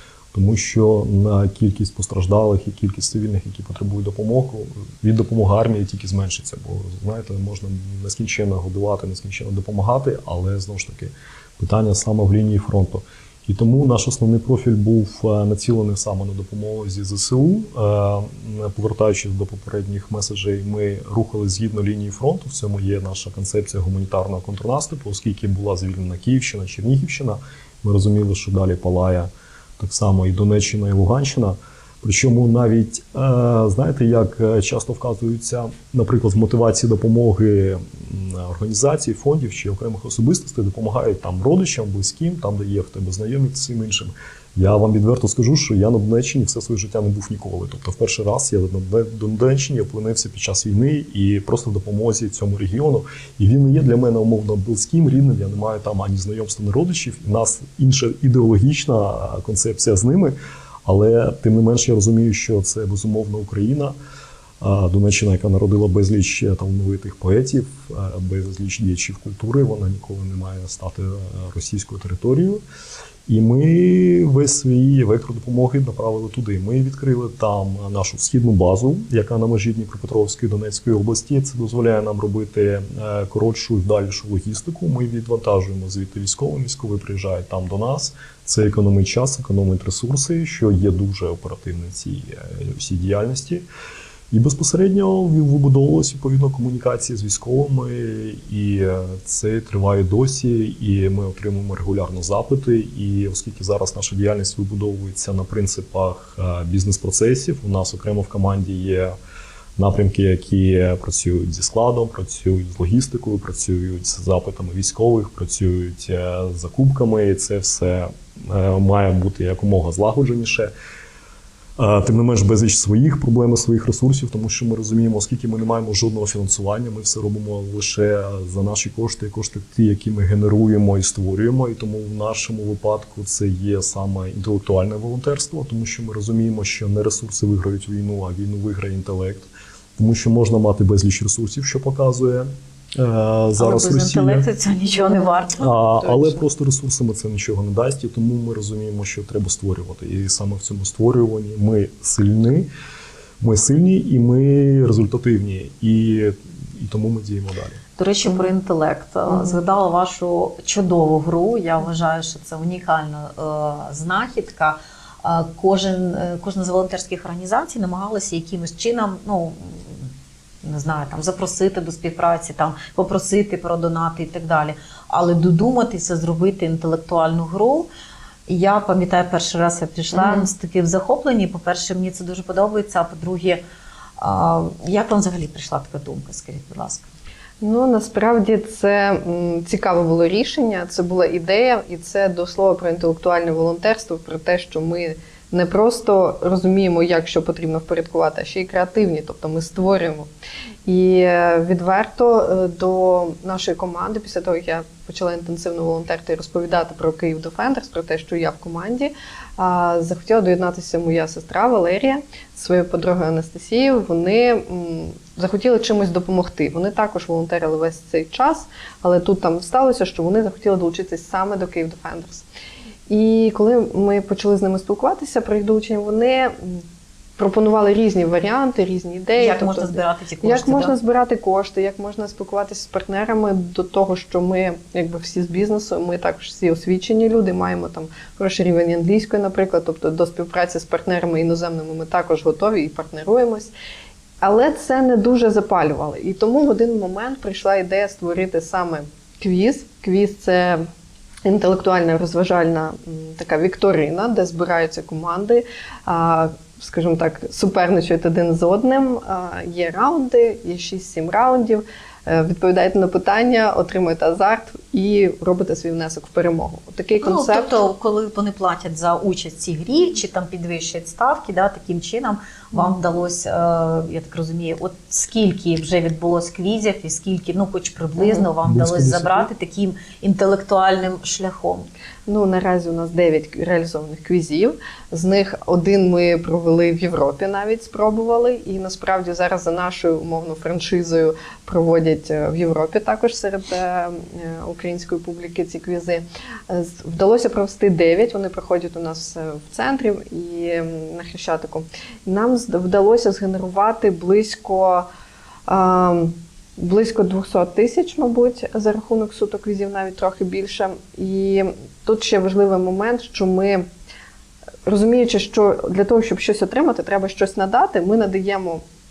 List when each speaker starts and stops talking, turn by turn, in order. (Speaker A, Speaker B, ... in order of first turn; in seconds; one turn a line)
Speaker A: 0.3-63.9
Speaker A: 64.6-72.6
Speaker A: 73.3-93.6
Speaker A: 94.3-109.1
Speaker A: 109.8-120.7
Speaker A: 121.8-144.5
Speaker B: 143.6-145.7
Speaker A: 145.6-152.7
Speaker A: 153.4-157.8
Speaker B: 158.0-170.1
Speaker C: 159.3-159.6
Speaker B: 170.6-177.9
Speaker B: 178.5-183.6
Speaker C: 180.1-180.4
Speaker B: 184.2-187.1
Speaker C: 187.6-200.3
Speaker C: 200.8-222.4
Speaker C: 223.1-226.8
Speaker C: 227.4-243.7
Speaker B: 229.4-230.9
Speaker C: 244.4-250.8
Speaker C: 251.4-267.8
Speaker B: 267.2-281.9
Speaker A: 278.6-279.5
Speaker C: 282.3-305.1
Speaker C: 305.7-313.9
Speaker C: 314.9-318.8